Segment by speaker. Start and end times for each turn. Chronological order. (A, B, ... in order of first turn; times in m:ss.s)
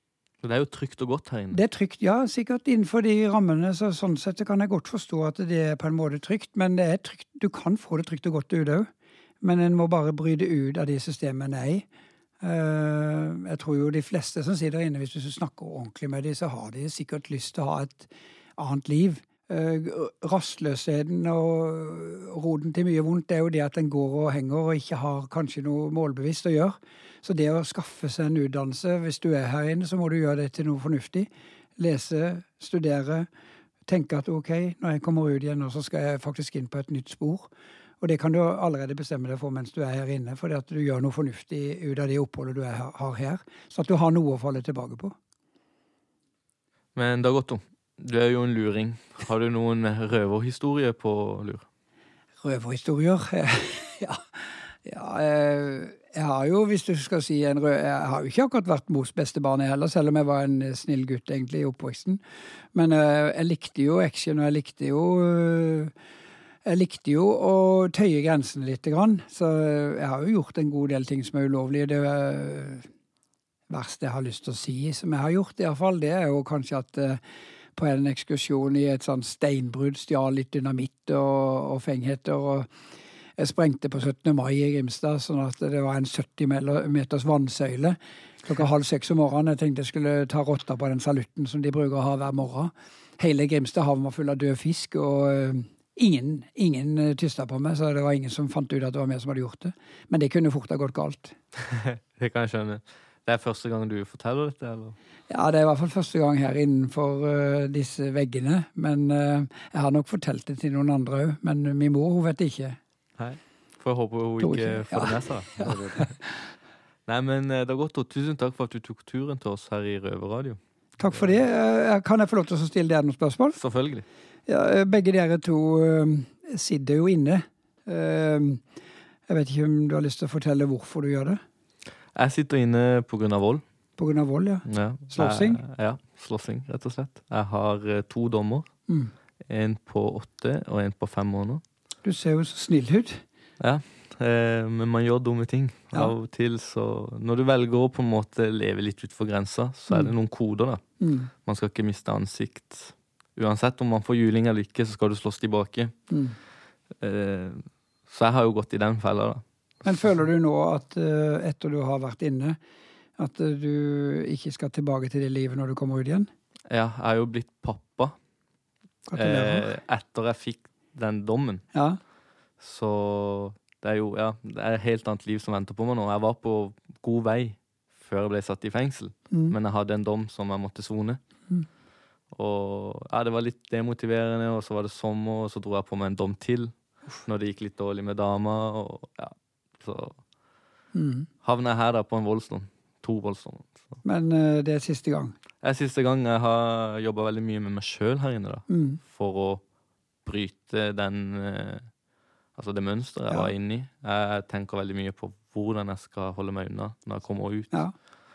0:00.4-0:01.6 A
0:01.5-0:08.9 B
0:09.4-0:11.8 B
0:12.4-0:33.3 B
0:33.9-0:37.5 B
0:38.0-0:45.1 B
0:47.0-0:51.6 A
0:52.4-0:54.2 B
0:54.8-1:02.2 B
1:02.7-1:05.9 B
1:06.6-1:12.8 B
1:13.7-1:17.2 B
1:17.8-1:22.7 B
1:23.4-1:41.3 B
1:41.7-1:45.0 A
1:45.3-1:52.8 B
1:53.2-1:56.1 A
1:54.4-1:56.1 B
1:57.1-2:00.6 A
2:01.0-2:03.6 B
2:03.6-2:04.0 A
2:04.5-2:08.6 B
2:09.3-2:11.4 B
2:12.1-2:13.6 A
2:14.0-2:15.6 B
2:14.6-2:18.7 A
2:19.5-2:21.6 A
2:22.0-2:23.2 B
2:23.6-2:30.8 A
2:31.0-2:31.3 B
2:31.4-2:36.0 A
2:36.1-2:36.4 B
2:37.0-2:39.4 A
2:39.8-2:42.6 B
2:43.2-2:46.3 B
2:46.7-2:48.1 A
2:49.1-2:49.7 B
2:49.1-2:51.6 A
2:52.6-3:01.2 A
2:59.3-2:59.6 B
3:02.3-3:06.7 A
3:07.2-3:10.2 A
3:10.9-3:11.3 B
3:11.4-3:14.0 A
3:14.0-3:15.3 B
3:15.6-3:19.6 A
3:18.7-3:19.0 B
3:20.2-3:21.9 A
3:22.6-3:27.8 A